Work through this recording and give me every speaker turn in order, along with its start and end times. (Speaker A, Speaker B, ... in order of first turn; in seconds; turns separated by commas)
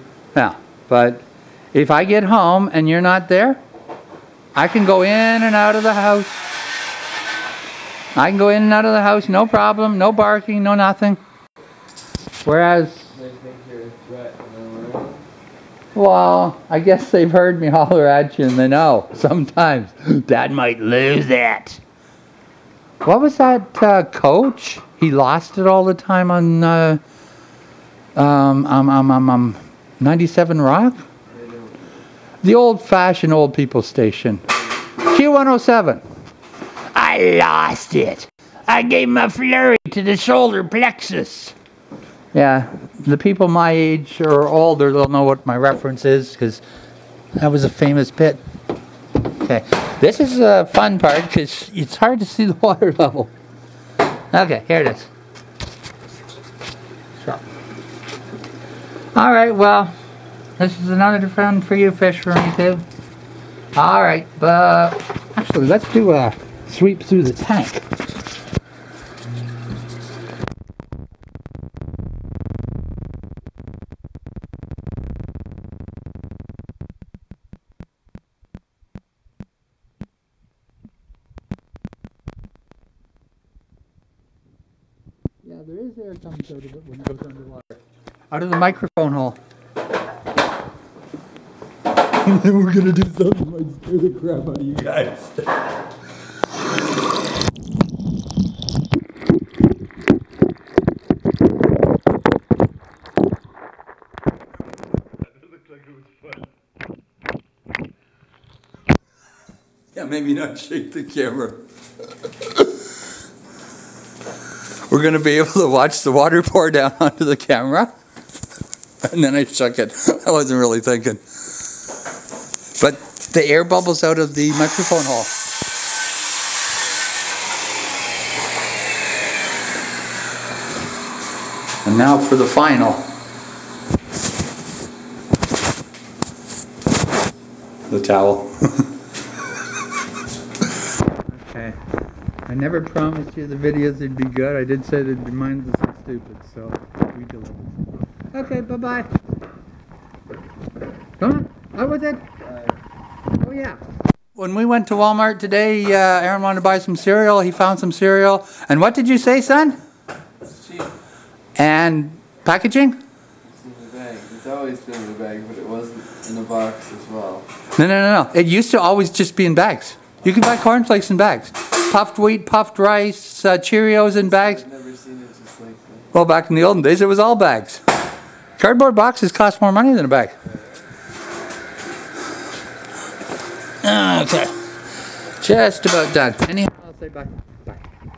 Speaker A: 0.3-3.6, Speaker A: 4.5-6.3, Speaker A: 8.1-11.2, Speaker A: 12.4-13.1, Speaker B: 13.1-15.2, Speaker A: 15.9-21.8, Speaker A: 23.0-27.0, Speaker A: 28.1-31.0, Speaker B: 31.3-31.8, Speaker A: 32.4-34.4, Speaker A: 35.0-36.0, Speaker A: 36.9-41.5, Speaker A: 42.3-46.6, Speaker A: 47.4-48.4, Speaker A: 49.2-53.3, Speaker A: 54.3-55.1, Speaker A: 59.1-59.9, Speaker A: 60.6-62.8, Speaker A: 63.7-67.8, Speaker A: 85.4-89.4, Speaker A: 92.1-95.5, Speaker A: 105.5-106.2, Speaker A: 109.9-111.6, Speaker A: 114.9-117.9, Speaker A: 119.0-121.4, Speaker A: 122.8-125.3, Speaker A: 131.8-133.1, Speaker A: 137.9-138.9, Speaker A: 141.3-141.8, Speaker A: 142.5-147.8, Speaker A: 148.3-149.1, Speaker A: 151.2-152.2, Speaker A: 153.4-153.8, Speaker A: 154.3-159.8, Speaker B: 160.5-160.9, Speaker A: 161.6-163.0, Speaker B: 163.5-167.4, Speaker A: 167.8-174.6, Speaker B: 174.2-176.1, Speaker A: 176.1-177.8, Speaker A: 178.6-180.3, Speaker A: 183.8-184.6, Speaker A: 185.4-187.8